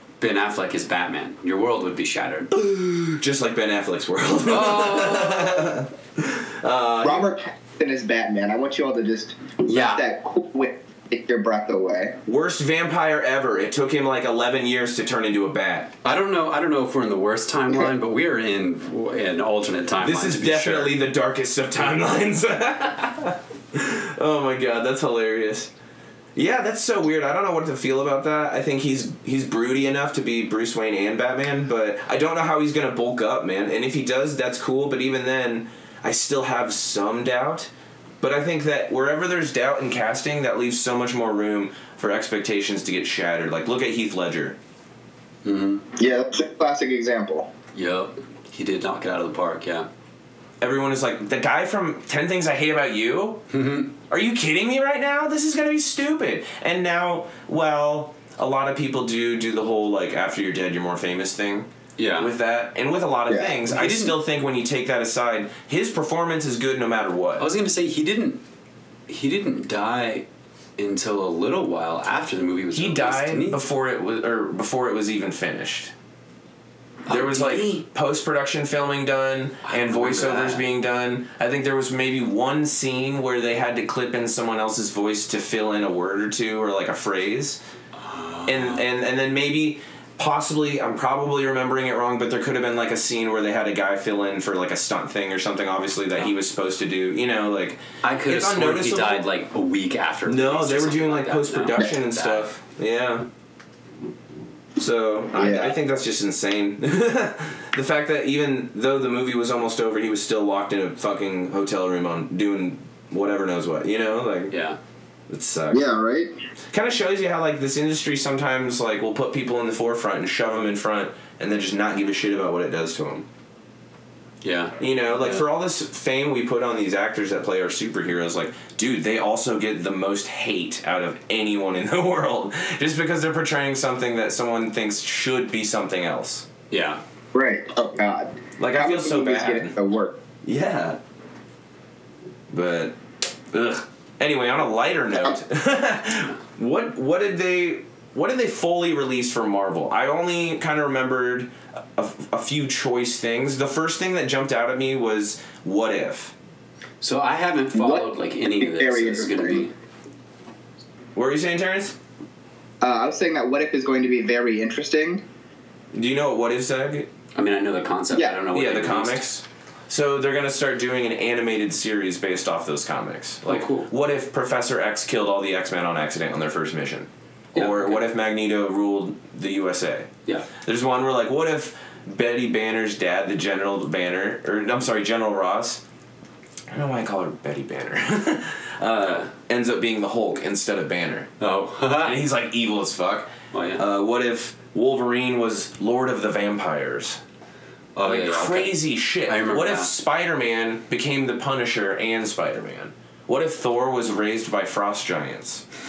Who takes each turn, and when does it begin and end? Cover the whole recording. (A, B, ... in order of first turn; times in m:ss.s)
0:00.2-0:03.2 A
0:03.2-0:07.3 B
0:04.4-0:05.7 A
0:07.0-0:12.2 C
0:09.6-0:10.0 A
0:12.2-0:15.9 B
0:16.0-0:20.9 A
0:20.0-0:25.7 B
0:26.3-0:37.7 B
0:38.2-0:44.6 B
0:45.4-0:45.8 A
0:46.0-0:47.5 C
0:47.7-0:49.9 A
0:50.6-0:53.4 B
0:53.5-0:53.9 A
0:54.1-1:07.5 B
1:02.0-1:02.3 A
1:03.3-1:03.6 C
1:03.7-1:04.2 A
1:07.4-1:08.4 A
1:09.1-1:10.3 A
1:10.8-1:13.6 A
1:12.7-1:15.9 B
1:17.0-1:17.8 A
1:17.1-1:27.6 B
1:19.6-1:20.7 A
1:28.0-1:28.8 A
1:28.4-1:39.2 B
1:38.0-1:42.5 A
1:40.2-1:43.3 B
1:44.8-1:54.5 B
1:45.3-1:45.7 C
1:54.5-1:54.8 A
1:55.3-1:55.8 B
1:55.7-1:56.3 C
1:56.7-2:03.2 B
2:04.4-2:05.4 A
2:04.8-2:16.5 B
2:16.7-2:17.0 A
2:17.3-2:20.2 C
2:18.6-2:19.7 B
2:20.4-2:21.0 B
2:22.5-2:23.0 B
2:23.5-2:36.3 B
2:37.0-2:39.7 A
2:37.7-2:38.1 C
2:38.6-2:39.6 C
2:41.1-2:42.0 B
2:42.8-2:45.2 C
2:45.9-2:47.1 B
2:47.3-2:49.2 A
2:48.5-3:05.8 B
2:53.4-2:53.9 A
2:57.5-2:58.0 A
3:06.7-3:11.3 B
3:09.0-3:09.3 A
3:11.4-3:12.2 A
3:12.0-3:17.2 B
3:13.5-3:13.8 A
3:18.0-3:19.9 A
3:18.0-3:25.6 B